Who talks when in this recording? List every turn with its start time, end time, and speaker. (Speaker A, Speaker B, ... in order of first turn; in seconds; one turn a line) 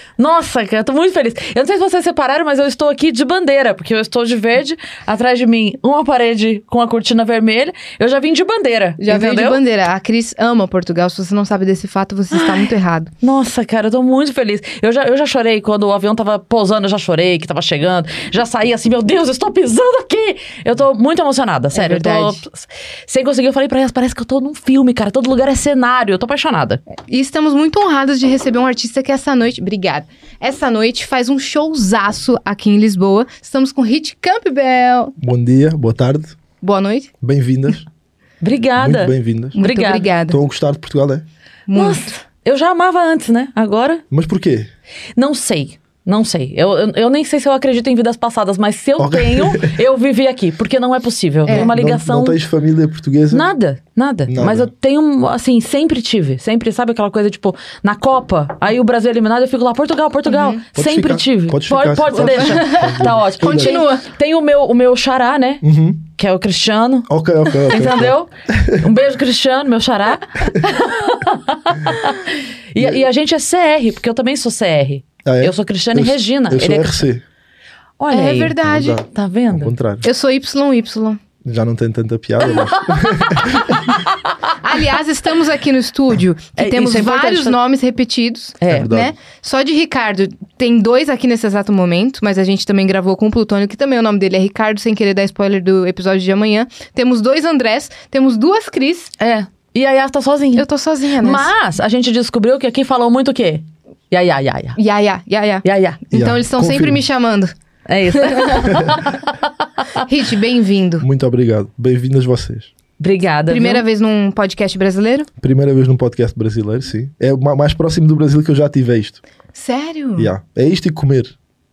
Speaker A: 0.2-9.6
Speaker B: 9.0-13.1
Speaker A: 12.3-26.8
Speaker B: 21.8-22.4
Speaker B: 27.0-35.1
Speaker C: 35.2-36.4
Speaker B: 36.6-37.1
Speaker C: 37.2-37.9
Speaker A: 38.4-40.1
Speaker C: 38.8-39.6
Speaker B: 39.5-40.4
Speaker C: 40.3-41.2
Speaker B: 41.7-42.1
Speaker A: 41.8-44.0
Speaker C: 44.1-44.7
Speaker A: 45.2-52.4
Speaker C: 49.0-49.8
Speaker B: 51.5-51.7
Speaker C: 51.5-53.5
Speaker A: 53.3-65.6
Speaker C: 54.3-54.7
Speaker B: 60.3-60.6
Speaker C: 60.8-63.8
Speaker B: 62.1-64.1
Speaker C: 65.6-66.0
Speaker A: 66.2-67.1
Speaker C: 67.1-68.9
Speaker A: 67.7-77.0
Speaker C: 72.8-73.0
Speaker C: 75.2-77.2
Speaker A: 78.0-78.6
Speaker B: 78.1-79.0
Speaker C: 78.6-80.0
Speaker A: 79.1-79.7
Speaker B: 80.0-81.2
Speaker C: 81.4-84.0
Speaker A: 82.5-84.3
Speaker B: 84.6-99.1
Speaker A: 86.6-87.6
Speaker A: 88.6-88.9
Speaker C: 88.7-89.1
Speaker A: 99.2-100.7
Speaker B: 100.6-101.5
Speaker A: 101.2-104.8
Speaker B: 104.8-107.5
Speaker A: 105.6-106.0
Speaker C: 106.1-107.0
Speaker A: 107.9-109.9
Speaker B: 108.1-109.0
Speaker C: 108.7-109.0
Speaker B: 110.0-111.0
Speaker C: 111.0-112.7
Speaker A: 113.0-113.8
Speaker B: 113.5-115.3
Speaker C: 115.4-119.2
Speaker B: 119.5-120.3
Speaker C: 120.2-121.3